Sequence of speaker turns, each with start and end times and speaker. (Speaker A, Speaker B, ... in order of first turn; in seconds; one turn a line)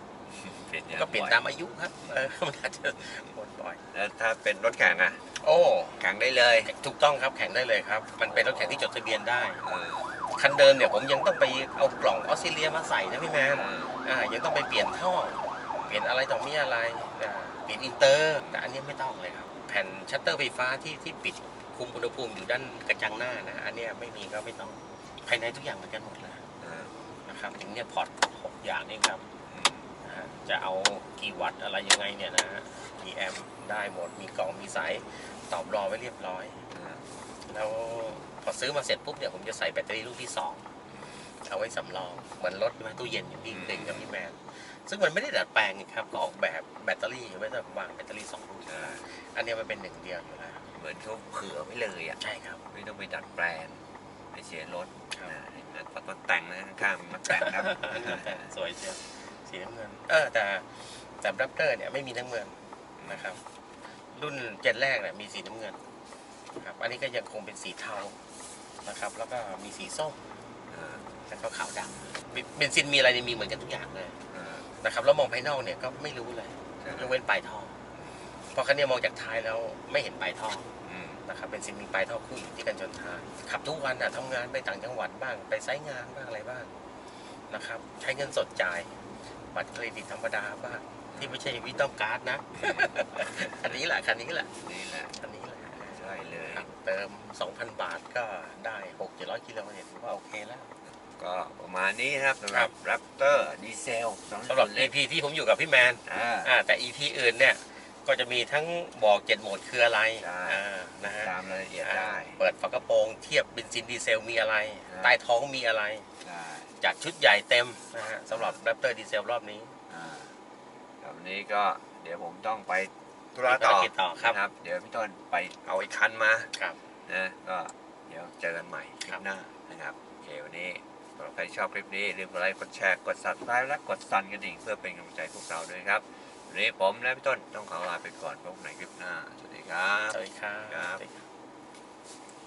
Speaker A: 0.3-1.4
Speaker B: 0.9-3.8
Speaker A: 2.0-2.3
Speaker A: 3.0-3.3
Speaker A: 3.9-5.2
Speaker B: 5.4-6.0
Speaker A: 6.0-6.7
Speaker B: 6.7-9.6
Speaker A: 8.3-8.8
Speaker A: 9.6-10.1
Speaker B: 10.2-26.4
Speaker A: 13.5-14.0
Speaker A: 18.4-18.6
Speaker A: 26.6-26.9
Speaker B: 27.3-29.3
Speaker A: 29.5-29.9
Speaker B: 30.0-36.6
Speaker A: 36.7-37.0
Speaker B: 37.5-40.7
Speaker A: 40.9-41.3
Speaker B: 41.5-50.7
Speaker A: 43.5-44.0
Speaker A: 48.7-49.0
Speaker A: 50.8-52.2
Speaker B: 52.2-52.6
Speaker A: 52.7-53.8
Speaker A: 54.3-58.5
Speaker B: 57.3-63.4
Speaker A: 63.0-63.4
Speaker B: 64.1-65.8
Speaker B: 66.6-68.2
Speaker B: 68.8-70.2
Speaker A: 70.7-71.0
Speaker B: 71.3-74.2
Speaker A: 74.3-74.7
Speaker B: 74.8-77.8
Speaker A: 76.8-77.1
Speaker A: 78.0-78.2
Speaker B: 78.5-80.7
Speaker A: 80.8-81.2
Speaker B: 81.3-86.7
Speaker B: 87.5-89.0
Speaker B: 89.5-94.5
Speaker A: 92.5-93.8
Speaker A: 94.6-95.2
Speaker B: 95.2-100.7
Speaker A: 95.8-96.7
Speaker A: 101.1-104.9
Speaker B: 102.5-102.7
Speaker B: 104.5-116.1
Speaker A: 106.1-106.5
Speaker A: 110.2-112.4
Speaker A: 114.9-115.2
Speaker A: 116.2-116.7
Speaker B: 116.8-119.8
Speaker A: 118.3-118.6
Speaker A: 119.9-120.3
Speaker A: 121.0-126.5
Speaker B: 123.4-124.4
Speaker A: 127.1-141.0
Speaker B: 140.1-141.3